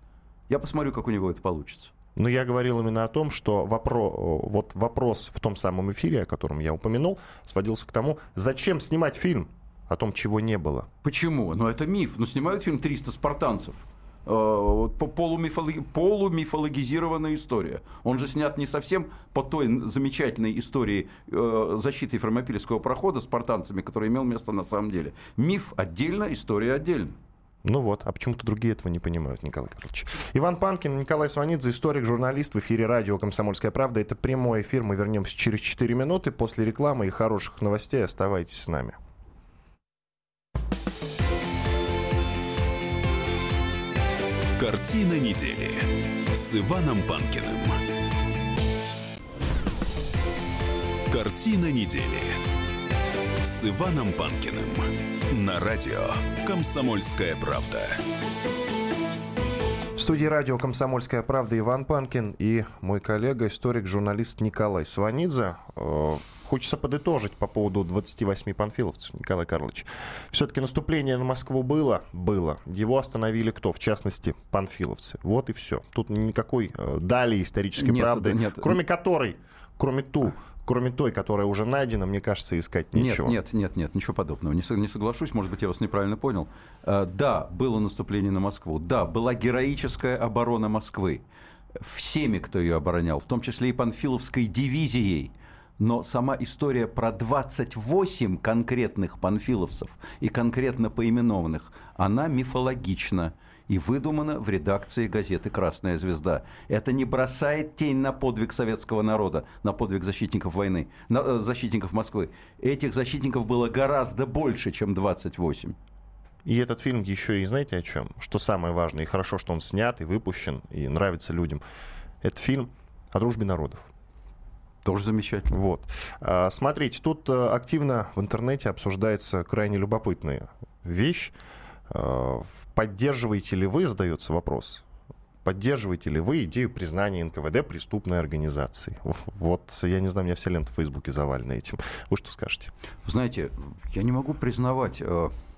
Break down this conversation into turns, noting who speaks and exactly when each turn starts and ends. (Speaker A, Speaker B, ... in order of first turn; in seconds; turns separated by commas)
Speaker A: 0.5-1.9, Speaker B: 2.1-10.9, Speaker A: 11.0-27.1, Speaker B: 27.6-39.0, Speaker C: 44.6-47.8, Speaker C: 51.1-52.4, Speaker C: 53.4-58.0, Speaker B: 60.0-83.4, Speaker A: 77.8-78.8, Speaker A: 82.9-91.2, Speaker A: 91.8-115.8, Speaker B: 116.4-121.6, Speaker B: 122.2-123.9, Speaker A: 124.8-125.5, Speaker B: 125.5-131.3, Speaker B: 131.9-134.8, Speaker B: 135.4-142.7, Speaker A: 143.1-145.3